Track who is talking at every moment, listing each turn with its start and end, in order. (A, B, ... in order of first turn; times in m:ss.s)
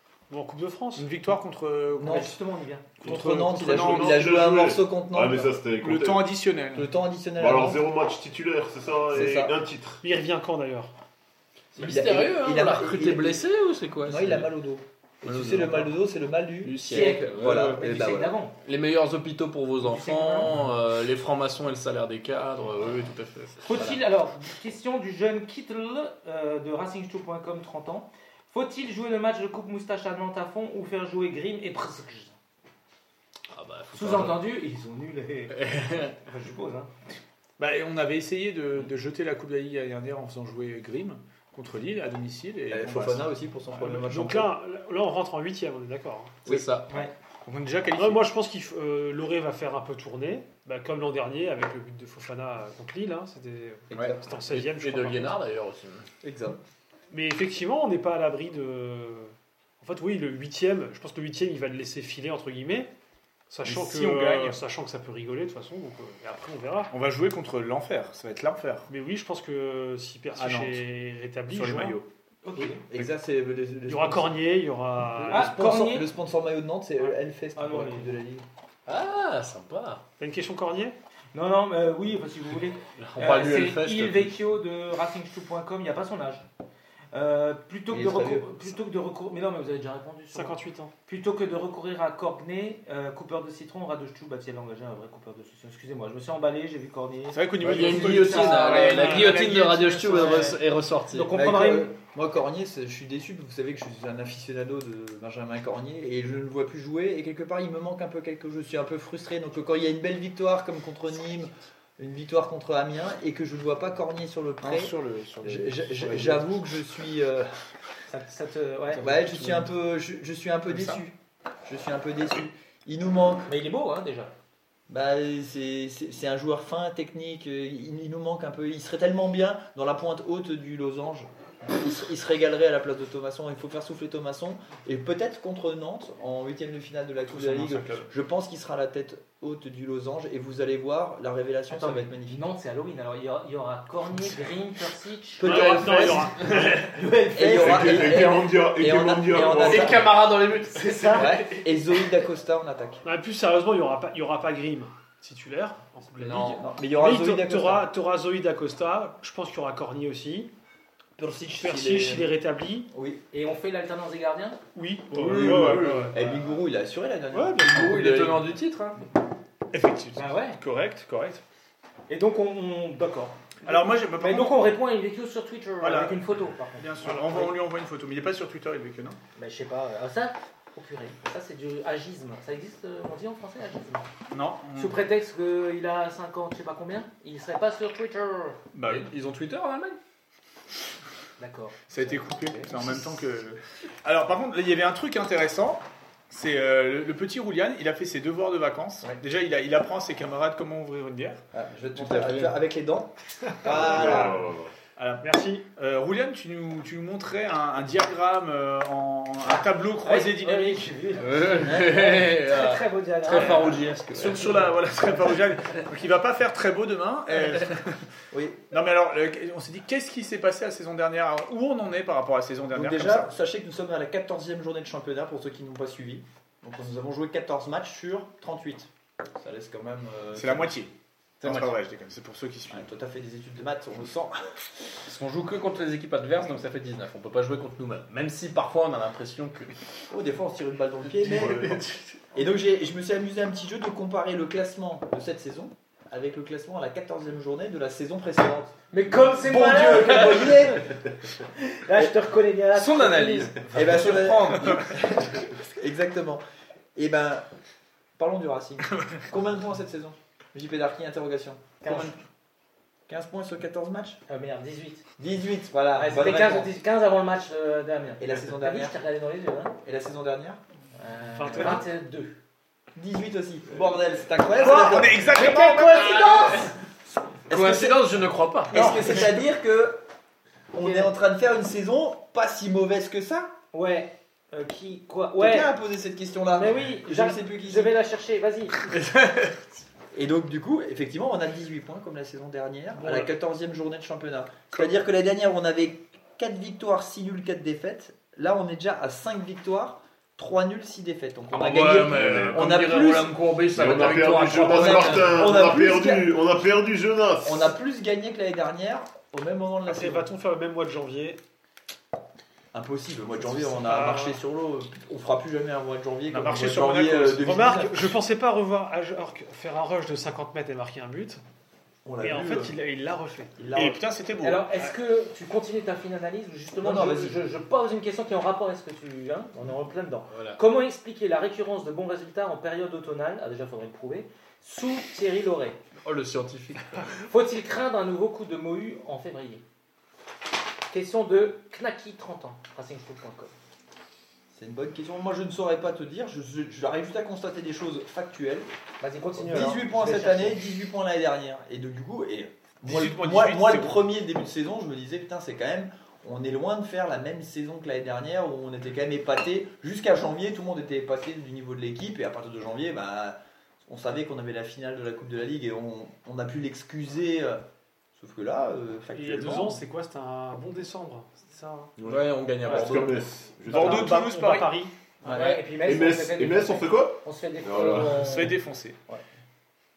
0:00.3-0:01.1 A
0:01.0-0:02.4 B
0:02.0-0:02.4 C
0:02.0-0:03.0 D
0:03.0-0:05.6 C
0:03.0-0:04.3 B
0:03.6-0:06.2 E
0:05.8-0:06.9 B
0:06.7-0:07.8 C
0:07.4-0:10.0 E
0:09.1-0:09.6 C
0:10.0-0:10.9 A
0:11.8-0:14.5 F
0:11.8-0:13.4 C
0:14.0-0:18.3 C
0:15.2-0:16.0 F
0:16.6-0:17.9 F
0:16.8-0:18.6 D
0:18.6-0:24.0 F
0:19.8-0:20.5 D
0:23.6-0:32.4 D
0:33.5-0:34.4 F
0:33.9-0:36.9 D
0:35.5-0:36.2 F
0:37.6-0:43.4 B
0:42.7-0:44.6 C
0:43.9-0:46.4 A
0:46.5-0:46.9 F
0:46.9-0:47.1 D
0:47.4-0:48.3 B
0:48.0-0:55.4 A
0:53.9-0:54.2 C
0:53.9-0:56.1 F
0:56.2-0:56.6 C
0:57.1-1:02.9 A
1:03.5-1:06.9 A
1:03.6-1:04.6 B
1:06.9-1:08.9 B
1:08.9-1:12.0 A
1:10.3-1:10.8 B
1:11.5-1:12.0 B
1:12.4-1:12.8 D
1:12.6-1:14.4 C
1:13.9-1:15.5 A
1:15.2-1:18.4 C
1:15.3-1:16.1 D
1:17.0-1:18.1 D
1:18.9-1:20.0 F
1:20.2-1:21.0 A
1:21.3-1:26.5 D
1:23.0-1:24.4 F
1:27.1-1:39.4 D
1:27.9-1:28.8 C
1:30.3-1:30.9 A
1:37.3-1:40.5 B
1:37.6-1:41.3 F
1:40.0-1:41.9 D
1:41.3-1:57.6 C
1:54.6-1:56.5 B
1:58.1-1:59.2 D
1:59.0-2:01.2 C
1:59.4-1:59.6 B
2:00.7-2:01.0 B
2:01.7-2:03.5 C
2:03.5-2:04.3 D
2:04.9-2:22.4 C
2:17.3-2:18.0 B
2:21.7-2:28.2 D
2:25.4-2:26.4 C
2:25.4-2:27.1 A
2:25.5-2:26.7 F
2:27.3-2:30.2 C
2:27.4-2:30.1 E
2:29.5-2:31.5 F
2:30.7-2:31.6 D
2:31.1-2:33.0 C
2:33.0-2:40.5 A
2:36.2-2:37.9 C
2:41.2-2:42.3 C
2:41.6-2:42.9 A
2:42.9-2:43.2 C
2:43.3-2:44.6 D
2:44.8-2:46.2 A
2:45.1-2:46.2 F
2:45.3-2:45.8 B
2:45.4-2:48.3 C
2:47.3-2:48.4 A
2:47.6-2:49.0 F
2:49.7-2:50.3 B
2:50.2-2:50.6 D
2:50.6-2:51.4 A
2:52.1-2:57.6 D
2:53.6-2:54.7 B
2:55.8-2:56.2 B
2:56.8-2:59.2 B
2:59.4-3:04.0 D
3:04.3-3:05.0 B
3:04.7-3:08.6 D
3:08.7-3:09.1 B
3:08.8-3:10.0 F
3:11.4-3:12.9 D
3:11.9-3:21.4 B
3:21.5-3:24.4 C
3:22.0-3:22.6 F
3:23.7-3:24.7 E
3:23.8-3:24.3 B
3:25.0-3:30.9 B
3:25.2-3:25.6 A
3:29.6-3:34.6 D
3:31.2-3:34.6 F
3:34.1-3:38.1 B
3:38.3-3:38.6 C
3:38.7-3:43.3 B
3:42.7-3:50.8 C
3:50.4-3:52.9 B
3:51.4-3:51.8 F
3:52.7-3:54.5 C
3:55.0-3:59.8 F
4:00.1-4:01.8 C
4:01.2-4:01.9 F
4:01.3-4:01.8 E
4:02.3-4:08.8 C
4:08.9-4:11.0 D
4:09.3-4:11.0 C
4:11.5-4:14.0 D
4:12.8-4:14.9 F
4:13.7-4:16.4 C
4:17.0-4:17.5 C
4:18.2-4:22.1 C
4:21.8-4:22.2 D
4:23.1-4:24.2 C
4:24.3-4:25.1 D
4:25.2-4:26.7 C
4:26.0-4:29.8 D
4:28.2-4:29.0 C
4:29.8-4:30.6 C
4:31.0-4:32.4 D
4:31.4-4:31.9 A
4:33.0-4:35.4 C
4:34.6-4:36.2 B
4:35.2-4:36.7 D
4:36.1-4:36.6 F
4:37.5-4:38.1 C
4:37.5-4:39.2 F
4:38.7-4:40.0 C
4:38.7-4:39.3 D
4:40.7-4:43.5 C
4:40.8-4:41.1 D
4:43.7-4:45.7 D
4:45.4-4:47.9 C
4:46.5-4:48.9 D
4:50.1-5:03.3 C
4:53.0-4:53.3 A
5:01.5-5:05.6 F
5:01.8-5:02.7 E
5:03.7-5:07.7 E
5:04.6-5:06.3 C
5:07.4-5:10.3 C
5:09.9-5:11.4 A
5:12.7-5:18.2 C
5:13.4-5:14.4 A
5:16.3-5:17.5 B
5:17.3-5:21.4 A
5:22.0-5:22.8 C
5:22.2-5:23.6 A
5:23.6-5:24.0 C
5:23.8-5:24.6 B
5:24.4-5:35.8 D
5:26.8-5:27.4 C
5:30.3-5:30.6 F
5:36.0-5:37.1 F
5:37.2-5:39.6 D
5:40.9-5:43.5 D
5:44.5-5:48.7 C
5:49.0-5:50.6 D
5:49.4-6:07.6 C
5:52.8-5:54.0 B
6:08.2-6:09.8 C
6:09.1-6:12.0 A
6:12.0-6:14.2 E
6:12.0-6:13.2 F
6:13.7-6:14.7 B
6:13.7-6:14.9 A
6:15.2-6:15.6 C
6:15.2-6:18.6 D
6:15.7-6:18.4 E
6:18.0-6:19.0 B